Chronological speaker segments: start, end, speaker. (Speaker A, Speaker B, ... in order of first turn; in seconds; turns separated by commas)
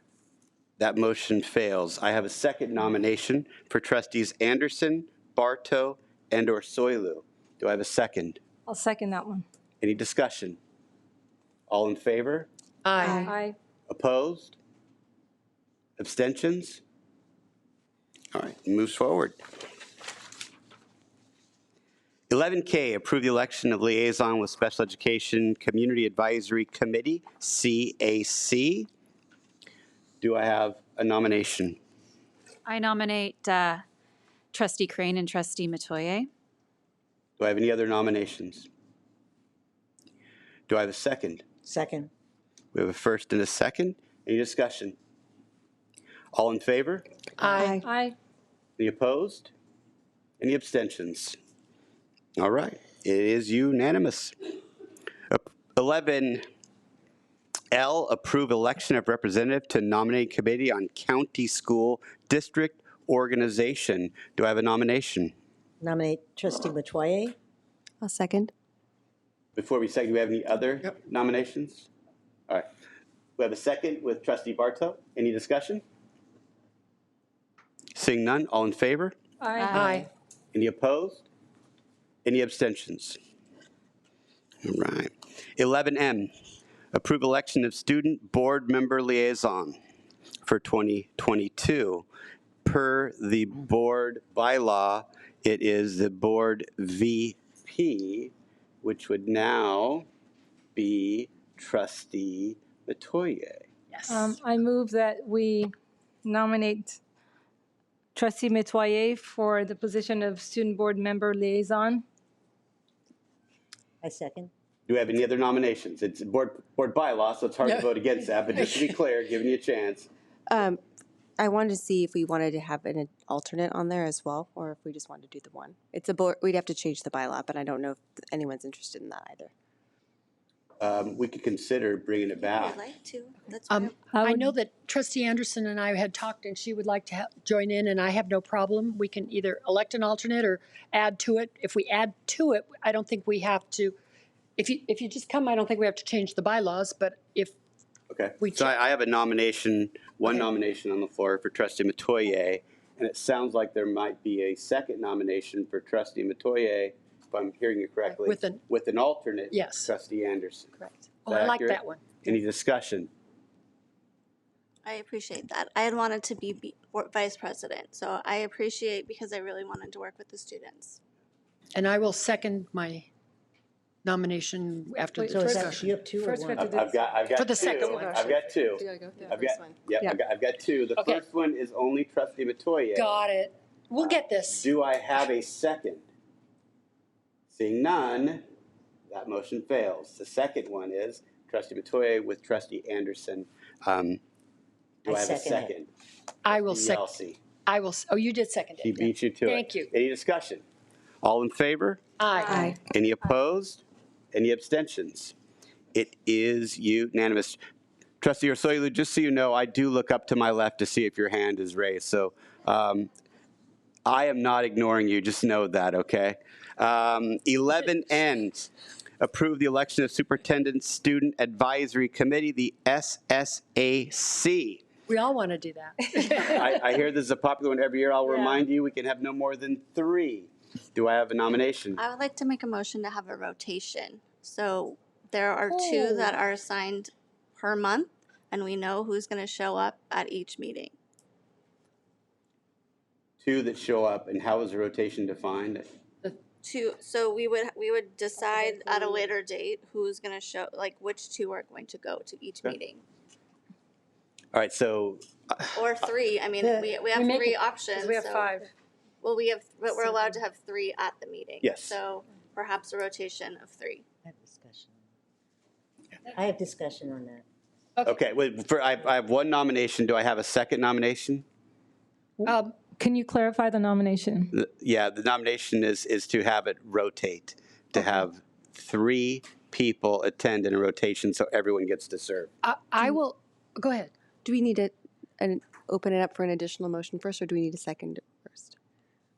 Speaker A: 0.8-8.4, Speaker B: 8.7-9.4, Speaker A: 9.8-10.6, Speaker A: 11.7-12.5, Speaker C: 12.8-13.3, Speaker D: 13.0-13.3, Speaker B: 13.2-13.6, Speaker A: 13.9-14.6, Speaker A: 16.0-16.8, Speaker A: 18.3-19.4, Speaker A: 22.3-28.9, Speaker A: 30.2-31.8, Speaker E: 32.6-33.8, Speaker E: 34.5-36.3, Speaker A: 37.4-38.7, Speaker A: 40.7-41.4, Speaker F: 41.6-42.1, Speaker A: 42.7-45.0, Speaker A: 46.3-47.0, Speaker C: 47.4-47.8, Speaker D: 47.6-47.8, Speaker B: 47.6-48.1, Speaker A: 48.8-49.5, Speaker A: 50.4-51.4, Speaker A: 52.4-54.4, Speaker A: 55.3-56.4, Speaker A: 57.7-65.3, Speaker F: 65.8-67.3, Speaker D: 68.0-68.5, Speaker A: 69.5-71.9, Speaker A: 73.4-75.8, Speaker A: 78.0-79.1, Speaker B: 79.4-79.8, Speaker E: 79.5-80.0, Speaker C: 79.7-80.1, Speaker A: 80.5-81.2, Speaker A: 82.2-83.2, Speaker A: 84.6-86.3, Speaker A: 86.9-89.8, Speaker A: 90.4-92.0, Speaker A: 92.6-98.3, Speaker A: 98.8-100.1, Speaker A: 100.7-103.7, Speaker C: 103.9-104.4, Speaker B: 104.1-105.7, Speaker B: 106.2-107.0, Speaker B: 108.1-112.0, Speaker F: 114.0-114.5, Speaker A: 114.9-120.1, Speaker D: 120.5-120.8, Speaker D: 121.4-129.5, Speaker A: 130.8-132.8, Speaker G: 132.4-133.9, Speaker C: 133.7-143.9, Speaker B: 134.1-134.5, Speaker C: 144.6-147.5, Speaker A: 148.1-160.7, Speaker C: 148.4-148.7, Speaker C: 158.1-158.6, Speaker C: 159.5-159.9, Speaker C: 160.8-162.0, Speaker A: 161.3-163.1, Speaker G: 164.8-171.0, Speaker C: 171.7-173.1, Speaker C: 174.0-175.8, Speaker B: 175.1-177.1, Speaker F: 175.3-176.7, Speaker A: 176.6-183.2, Speaker C: 177.3-178.3, Speaker D: 177.8-180.2, Speaker C: 181.0-181.2, Speaker C: 182.9-184.7, Speaker A: 184.0-186.0, Speaker A: 187.5-188.4, Speaker A: 189.1-194.2, Speaker A: 195.0-195.9, Speaker F: 195.0-195.7, Speaker C: 196.4-197.1, Speaker A: 196.5-197.4, Speaker C: 197.7-199.9, Speaker A: 198.8-200.6, Speaker A: 201.2-202.0, Speaker C: 202.2-202.7, Speaker D: 202.4-202.8, Speaker A: 202.8-205.3, Speaker A: 205.9-207.6, Speaker A: 208.2-213.1, Speaker A: 214.1-224.8, Speaker C: 225.1-226.8, Speaker A: 226.3-232.0, Speaker G: 232.0-240.9, Speaker A: 243.4-245.9, Speaker G: 246.6-253.0, Speaker A: 254.5-255.7, Speaker G: 255.7-258.6, Speaker F: 256.6-257.0, Speaker C: 257.1-258.6, Speaker G: 259.2-264.0, Speaker A: 261.6-261.9, Speaker F: 264.2-264.9, Speaker F: 266.3-267.4, Speaker A: 268.0-271.4, Speaker B: 272.4-274.5, Speaker C: 272.4-272.7, Speaker A: 274.5-282.5, Speaker C: 282.6-284.1, Speaker D: 284.4-288.7